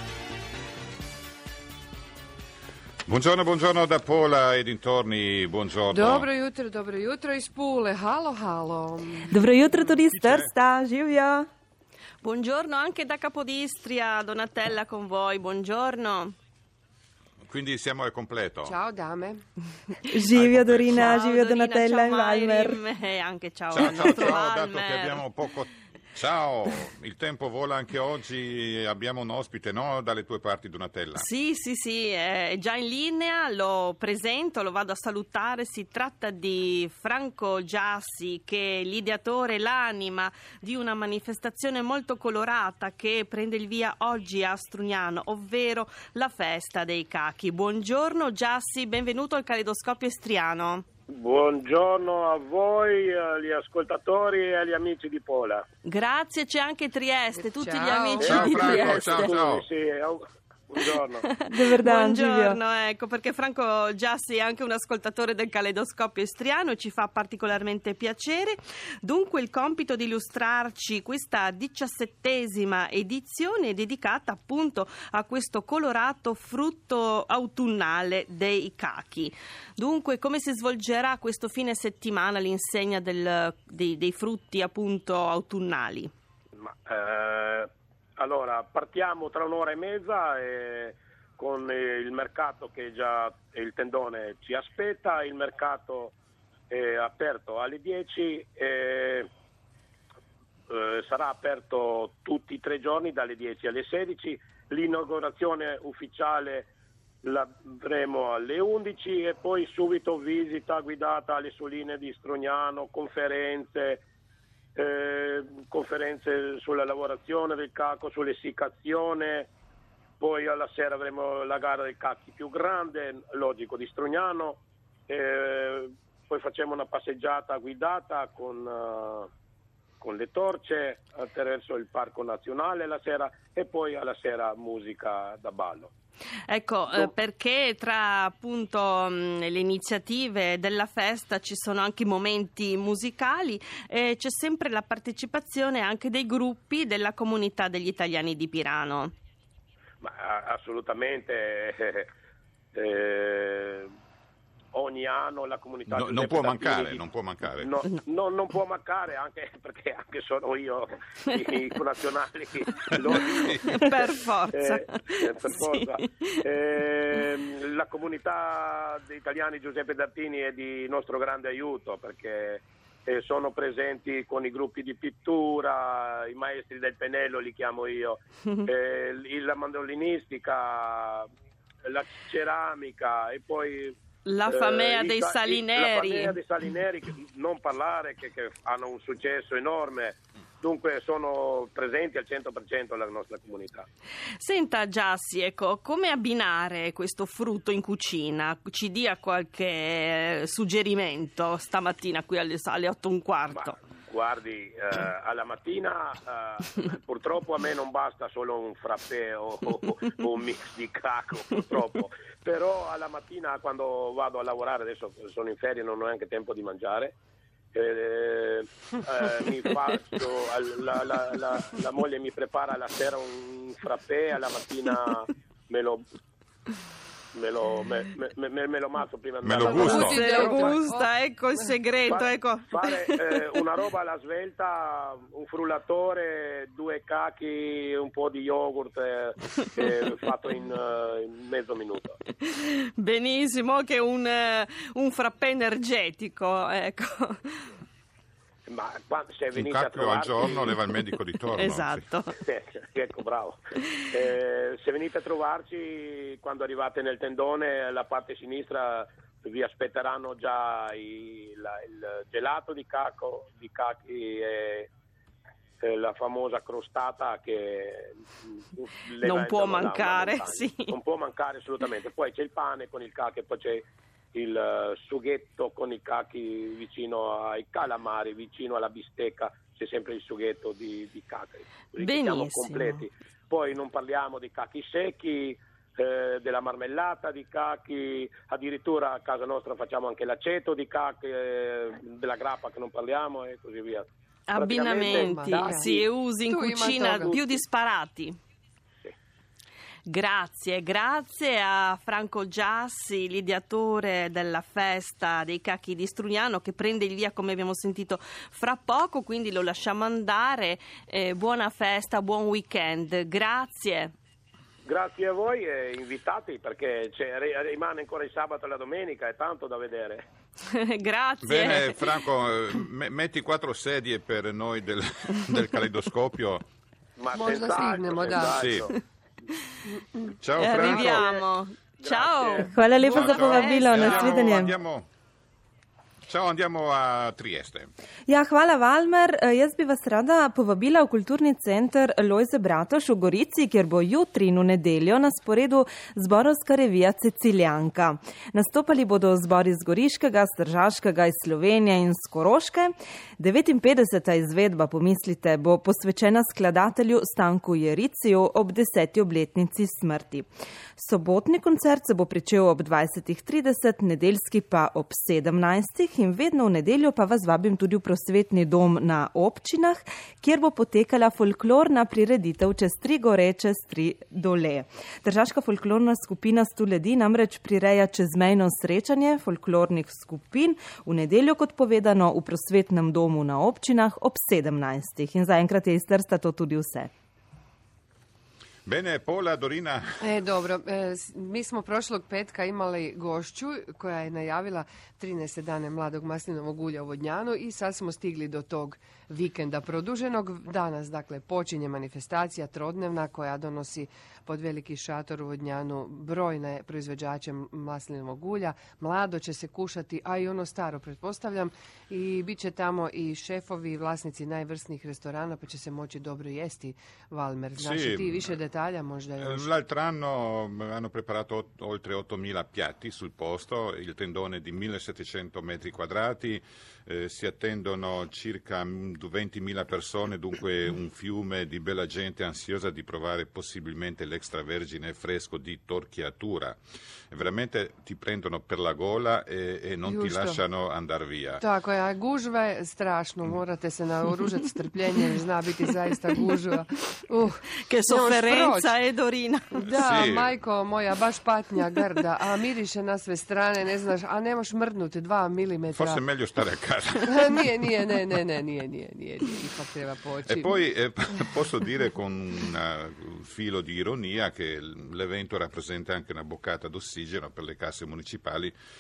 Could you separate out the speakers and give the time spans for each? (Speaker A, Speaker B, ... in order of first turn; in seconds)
Speaker A: 3.1-6.3, 10.1-10.5, 17.5-18.8, 20.3-21.1, 23.7-31.3, 58.2-59.6, 155.9-157.7, 163.1-163.7, 229.4-230.2, 249.5-252.1, 321.4-326.6, 328.5-328.9, 330.4-331.3, 333.1-335.1, 336.3-337.9, 388.9-390.2, 417.8-418.5, 419.4-436.8, 437.3-441.6, 449.9-450.5, 455.9-457.7, 460.5-468.8
Speaker B: 5.9-9.4, 18.6-19.4, 57.4-58.9, 229.6-231.6, 295.0-297.4, 327.3-328.7, 390.2-419.7, 440.0-440.6, 441.6-448.9, 449.7-456.2, 457.3-460.8
Speaker C: 9.3-11.5, 20.1-22.8, 61.5-62.6, 332.7-334.7, 338.3-387.1
Speaker D: 12.2-16.3, 21.0-25.2, 31.2-50.9, 55.9-59.3, 61.3-86.1, 136.5-149.1, 163.7-166.3, 184.2-186.4, 194.4-203.8, 229.8-233.3, 242.4-247.7, 251.6-252.4, 269.2-270.9, 282.0-283.1, 294.5-298.4, 300.1-314.1, 320.7-322.2, 330.6-334.6, 447.9-449.9
Speaker E: 51.1-55.6, 58.2-61.3, 86.6-96.2, 96.7-99.3, 100.7-106.7, 107.2-114.0, 114.8-119.5, 120.2-129.3, 130.0-135.9, 150.0-152.1, 152.8-153.9, 154.7-157.0, 157.6-163.8, 164.5-181.3, 181.9-193.9, 203.5-217.2, 217.7-226.0, 227.3-230.7, 232.1-242.2, 248.7-250.7, 252.4-253.6, 254.1-264.9, 265.8-296.0, 297.2-297.6, 314.9-320.3, 327.2-328.9, 331.1-331.4, 332.0-332.7